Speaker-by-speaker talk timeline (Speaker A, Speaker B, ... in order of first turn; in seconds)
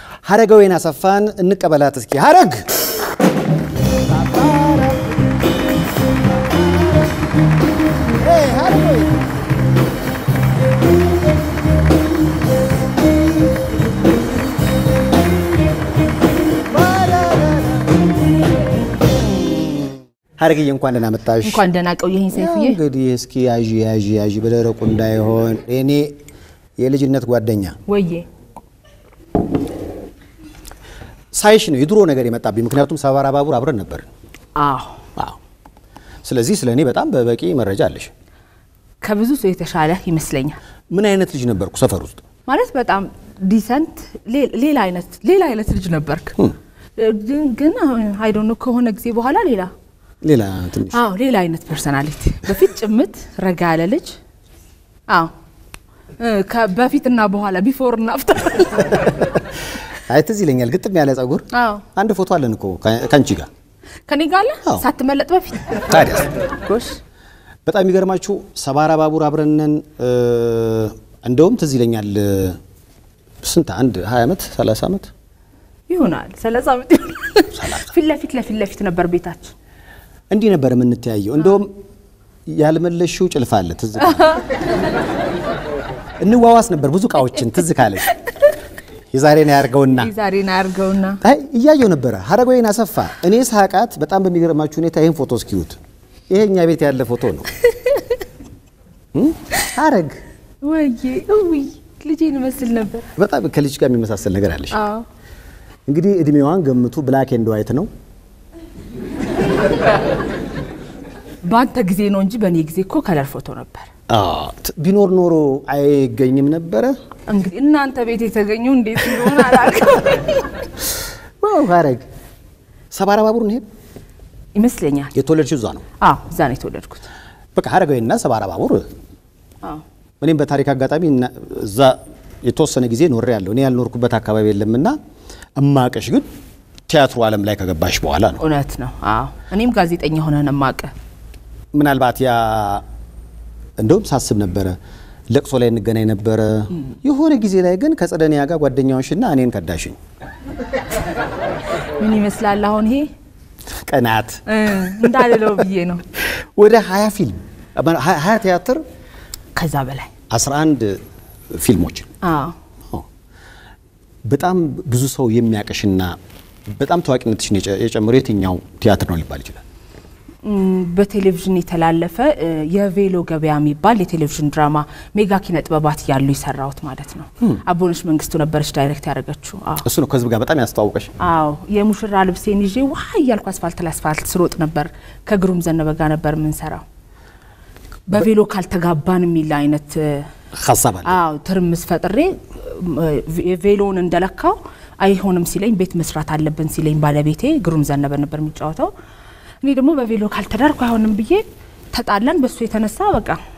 Speaker A: 0.2-2.6, 3.9-5.4, 6.2-7.2, 8.1-9.2, 16.6-18.0, 19.3-21.6, 22.3-26.1, 26.8-27.8, 31.3-34.1, 36.2-38.1, 40.9-42.2, 50.2-51.0, 59.1-59.4, 60.1-63.5, 65.8-66.3, 67.7-72.6, 73.4-75.1, 77.5-77.9, 80.3-81.7, 82.5-84.4, 86.2-88.1, 89.1-90.1, 91.2-95.8, 96.3-97.5, 99.1-100.2, 103.2-104.8, 105.9-107.9, 114.1-116.9, 121.4-122.0, 122.9-123.6, 125.1-125.8, 127.5-128.9, 130.2-134.9, 135.6-136.2, 136.9-138.4, 141.7-142.8, 143.8-144.8, 145.3-150.0, 153.8-155.6, 156.2-158.8, 160.3-161.0, 161.5-162.1, 164.2-166.2, 166.7-169.6, 179.8-181.1, 190.5-191.2
Speaker B: 21.4-22.8, 27.9-28.2, 34.5-35.0, 39.0-40.6, 42.5-46.4, 47.0-49.7, 50.9-54.2, 56.2-59.1, 61.5-61.8, 64.1-65.9, 66.6-67.0, 75.9-79.5, 84.1-84.4, 90.0-91.2, 100.6-103.1, 104.7-105.0, 111.4-113.9, 117.3-120.5, 124.5-125.1, 126.0-127.0, 138.4-140.9, 152.0-153.1, 154.5-156.0, 159.6-160.1, 162.2-162.6, 170.4-179.8, 181.2-186.8, 188.1-190.3, 191.0-198.9, 199.6-203.4